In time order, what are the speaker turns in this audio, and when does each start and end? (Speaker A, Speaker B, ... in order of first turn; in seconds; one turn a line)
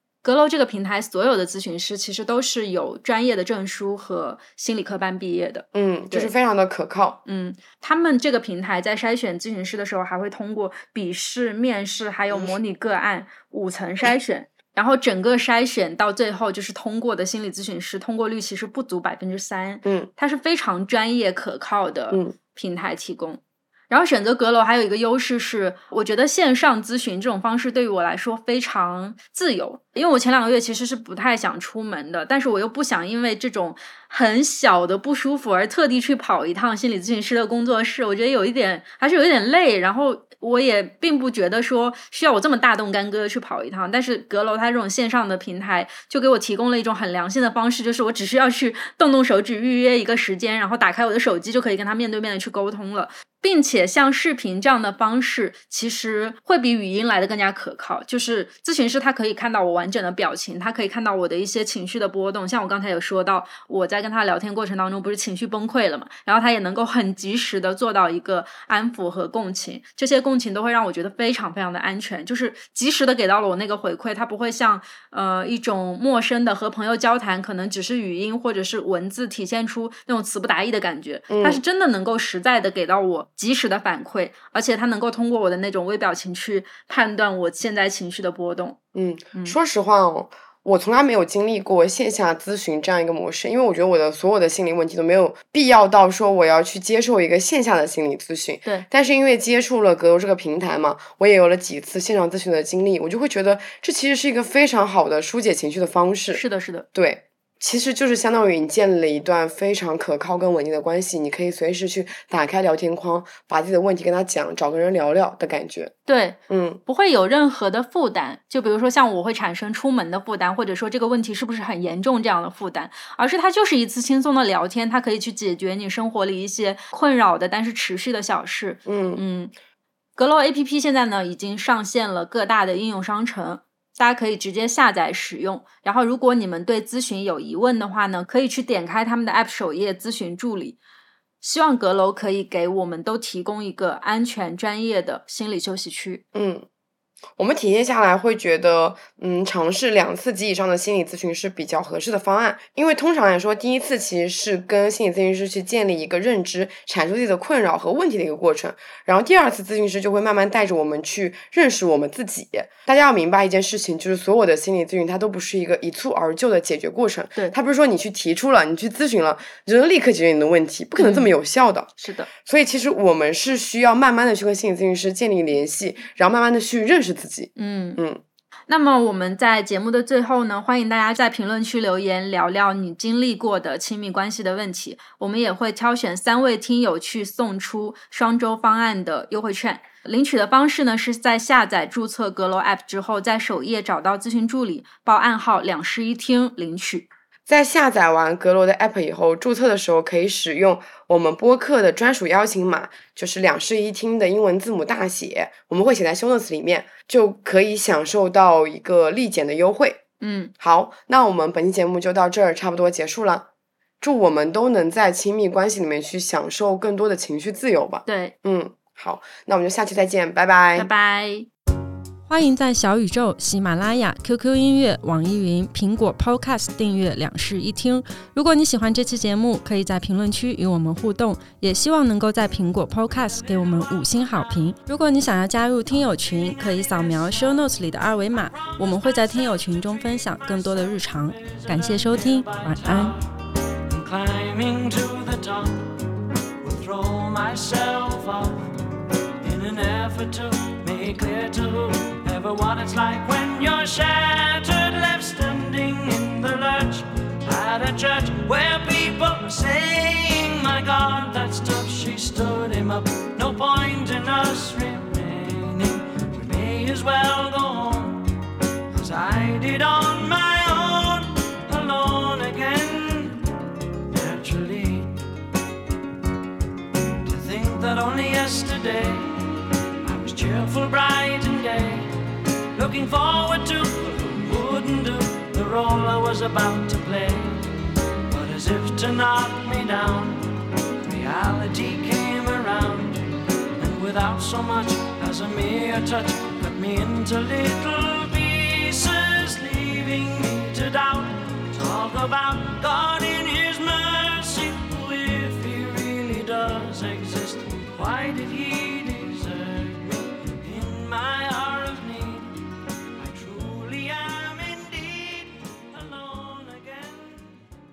Speaker A: 0.2-6.3
Speaker B: 5.7-7.2
Speaker A: 7.3-88.8
Speaker B: 19.8-20.1
Speaker B: 81.3-81.6
Speaker B: 88.9-106.4
Speaker A: 106.3-106.9
Speaker B: 106.9-115.9
Speaker A: 116.1-129.5
Speaker B: 116.5-116.8
Speaker B: 128.9-129.2
Speaker A: 130.2-140.8
Speaker A: 141.4-146.2
Speaker B: 146.3-146.7
Speaker B: 147.4-178.2
Speaker A: 171.0-171.3
Speaker A: 172.0-172.3
Speaker A: 177.6-178.0
Speaker A: 178.7-197.1
Speaker B: 197.5-210.0
Speaker A: 210.2-210.5
Speaker B: 210.6-213.5
Speaker B: 214.0-220.9
Speaker A: 218.1-218.3
Speaker A: 220.8-221.5
Speaker A: 222.3-243.2
Speaker C: 233.2-234.7
Speaker C: 236.0-237.7
Speaker C: 238.3-246.0
Speaker C: 246.6-248.8
Speaker C: 249.4-268.3
Speaker C: 268.9-273.5
Speaker C: 274.1-275.2
Speaker C: 277.2-282.2
Speaker C: 282.7-287.7
Speaker C: 288.3-312.6
Speaker C: 313.2-317.6